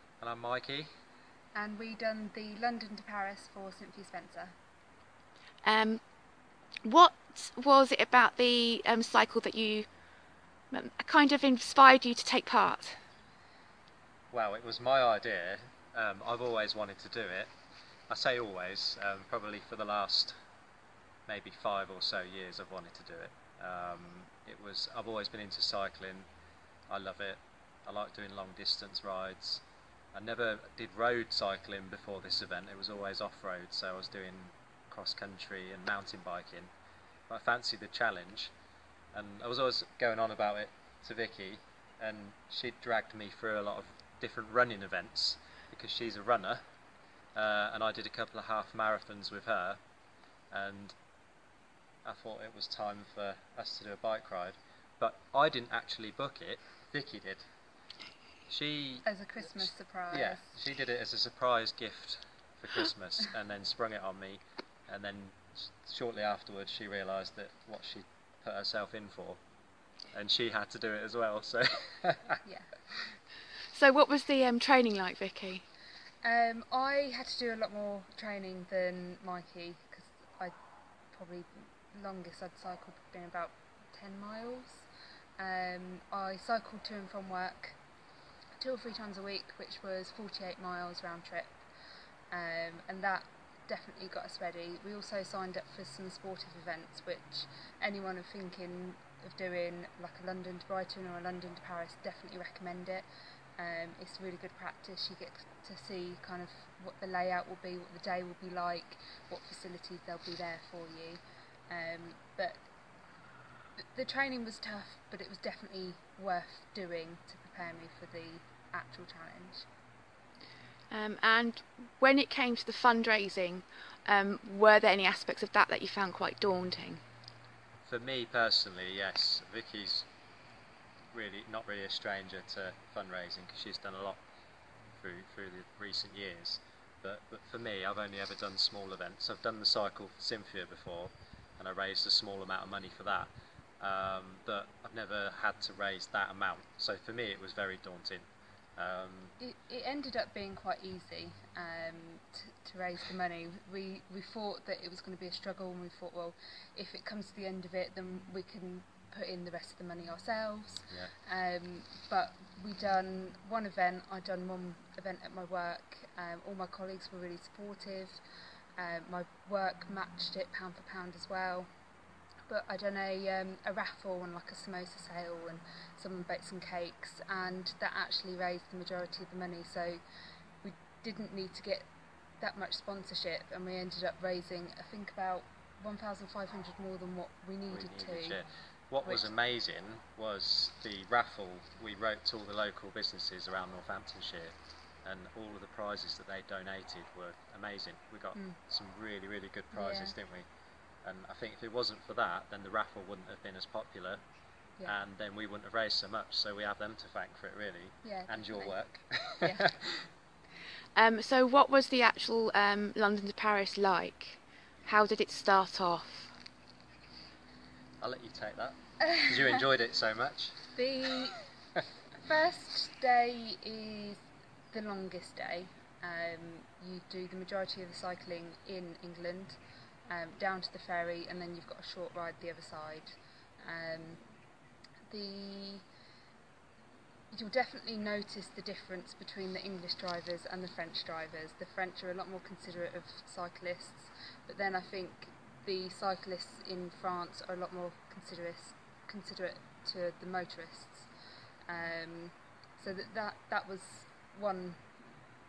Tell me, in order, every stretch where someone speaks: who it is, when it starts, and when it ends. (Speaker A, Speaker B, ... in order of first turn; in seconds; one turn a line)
Speaker A: 0.2-0.9
Speaker B: 1.5-4.5
Speaker C: 5.6-6.0
Speaker C: 6.8-9.9
Speaker C: 10.7-13.0
Speaker A: 14.3-17.5
Speaker A: 18.1-20.3
Speaker A: 21.3-26.2
Speaker A: 26.9-29.6
Speaker A: 30.1-36.7
Speaker A: 37.3-38.5
Speaker A: 39.1-46.6
Speaker A: 47.3-49.8
Speaker A: 50.5-50.9
Speaker A: 52.0-57.4
Speaker A: 58.5-59.1
Speaker B: 59.0-60.5
Speaker A: 60.1-69.4
Speaker A: 70.1-72.4
Speaker B: 72.4-72.7
Speaker C: 73.7-75.6
Speaker B: 76.2-80.5
Speaker B: 81.1-84.9
Speaker B: 85.4-87.8
Speaker B: 88.6-91.6
Speaker B: 92.3-103.0
Speaker B: 103.6-112.6
Speaker B: 113.9-119.7
Speaker C: 120.9-127.0
Speaker A: 127.8-130.1
Speaker A: 131.1-134.2
Speaker A: 135.0-149.3
Speaker B: 149.4-168.2
Speaker B: 168.8-171.7
Speaker B: 172.5-180.0
Speaker B: 180.6-181.9
Speaker B: 182.4-188.4
Speaker A: 187.7-194.5
Speaker A: 195.0-200.4
Speaker B: 199.7-200.1
Speaker A: 201.0-204.2
Speaker A: 204.8-210.0
Speaker B: 208.0-208.7
Speaker B: 209.4-209.7
Speaker C: 210.9-216.3
Speaker A: 218.0-220.7
Speaker B: 220.7-221.4
Speaker B: 222.2-234.2
Speaker B: 235.1-235.8
Speaker B: 237.3-251.1
Speaker B: 251.7-254.8